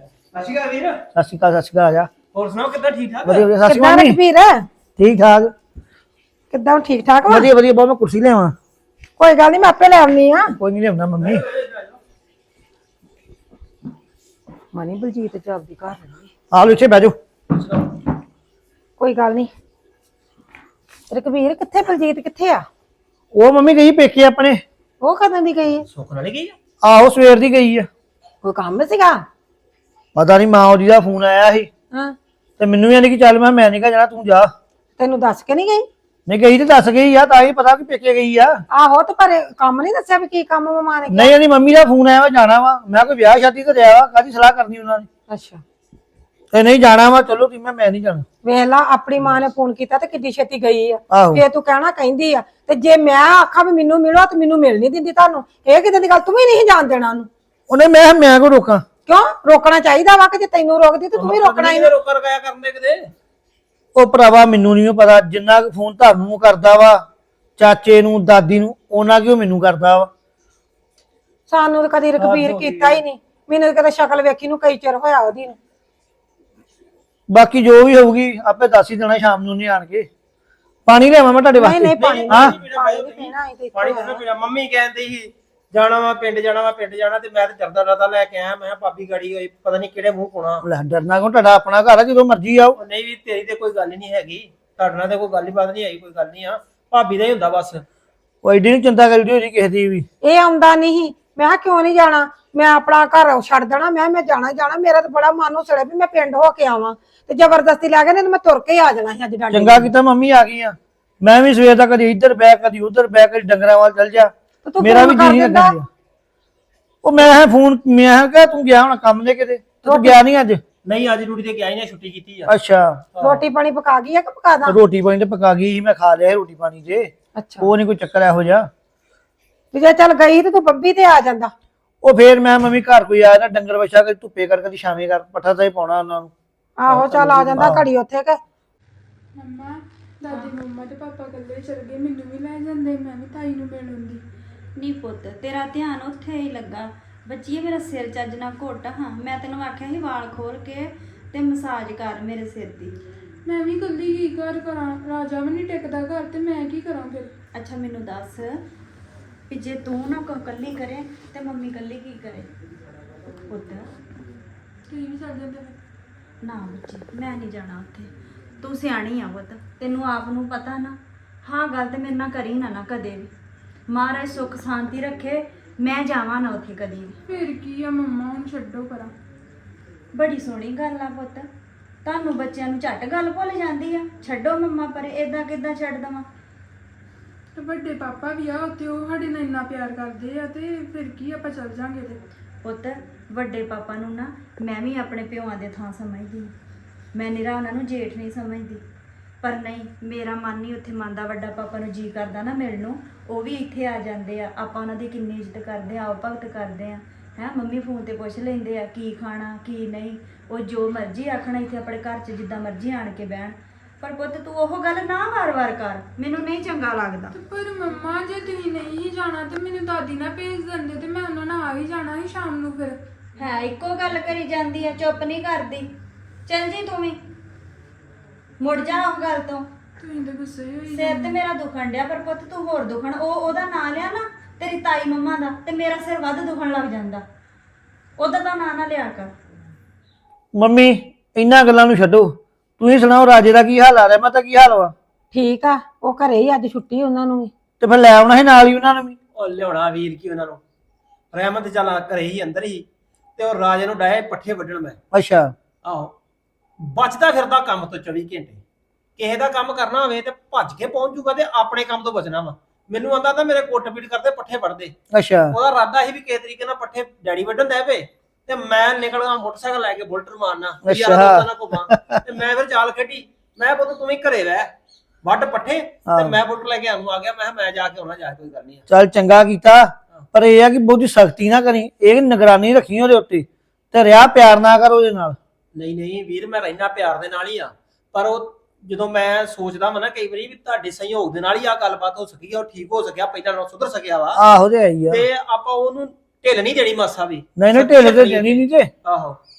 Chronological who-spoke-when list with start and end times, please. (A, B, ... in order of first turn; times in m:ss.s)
0:00.3-0:01.0 A
0:01.2-0:02.1 B
0:02.3-0:03.5 A
0:03.2-0:04.2 B
0:03.6-0:04.7 C
0:05.0-0:05.5 B
0:06.5-0:07.5 C
0:07.3-0:08.6 B
0:09.2-0:10.6 C
0:10.6-0:11.4 B
0:11.2-0:12.0 A
0:14.7-0:16.3 C
0:16.5-0:17.2 B
0:19.0-0:19.5 C
0:21.1-0:22.7 C
0:23.3-0:24.6 B
0:25.0-0:25.9 C
0:25.9-0:26.6 A
0:26.8-0:27.9 B
0:28.4-0:29.2 C
0:30.2-0:31.7 B
0:32.6-0:34.5 B
0:35.0-0:35.9 C
0:36.3-0:38.6 B
0:38.7-0:41.3 C
0:41.1-0:45.1 B
0:45.3-0:45.6 C
0:46.5-0:48.2 B
0:48.4-0:57.3 C
0:51.1-0:51.4 B
0:57.7-0:58.8 B
0:59.1-1:01.9 C
1:01.1-1:03.1 A
1:04.0-1:07.0 B
1:07.6-1:10.1 B
1:11.5-1:15.6 C
1:12.2-1:13.0 A
1:17.3-1:20.1 B
1:20.9-1:22.6 B
1:21.6-1:24.2 C
1:22.0-1:30.6 A
1:30.6-1:32.8 B
1:32.8-1:37.8 A
1:38.4-1:40.1 B
1:40.2-1:49.9 C
1:49.5-1:55.9 B
1:54.6-1:55.8 C
1:57.0-2:00.6 B
1:59.9-2:00.2 C
2:00.8-2:02.5 A
2:02.5-2:03.0 B
2:03.2-2:03.4 A
2:03.2-2:04.8 C
2:04.7-2:08.7 B
2:07.4-2:07.7 C
2:09.7-2:11.5 C
2:12.0-2:16.3 B
2:16.8-2:18.4 C
2:16.9-2:17.8 B
2:19.4-2:24.2 D
2:20.3-2:20.6 E
2:24.8-2:33.0 E
2:33.5-2:37.3 D
2:37.5-2:38.6 E
2:39.5-2:42.5 E
2:43.5-2:43.8 E
2:44.9-2:45.8 D
2:46.4-2:53.3 E
2:53.9-2:57.2 E
2:57.3-2:59.1 D
3:00.1-3:01.5 E
3:02.0-3:06.3 E
3:07.6-3:12.2 D
3:12.6-3:16.5 E
3:17.1-3:18.8 E
3:19.4-3:37.3 E
3:37.3-3:43.0 D
3:43.4-3:45.9 E
3:46.5-3:47.2 E
3:48.6-3:49.7 E
3:50.0-3:51.4 D
3:50.9-3:57.2 E
3:58.2-3:59.3 E
4:00.6-4:04.9 B
4:05.3-4:07.5 C
4:07.8-4:09.2 B
4:09.4-4:10.6 A
4:11.3-4:12.8 A
4:13.4-4:15.0 A
4:15.1-4:15.5 B
4:15.8-4:16.1 A
4:16.8-4:18.6 A
4:19.2-4:24.9 A
4:25.1-4:25.6 B
4:25.5-4:34.7 A
4:30.8-4:32.2 B
4:35.2-4:38.8 A
4:36.1-4:36.4 B
4:38.9-4:45.4 B
4:45.8-4:54.4 A
4:54.4-4:55.2 B
4:55.1-4:59.4 A
4:57.6-4:58.9 B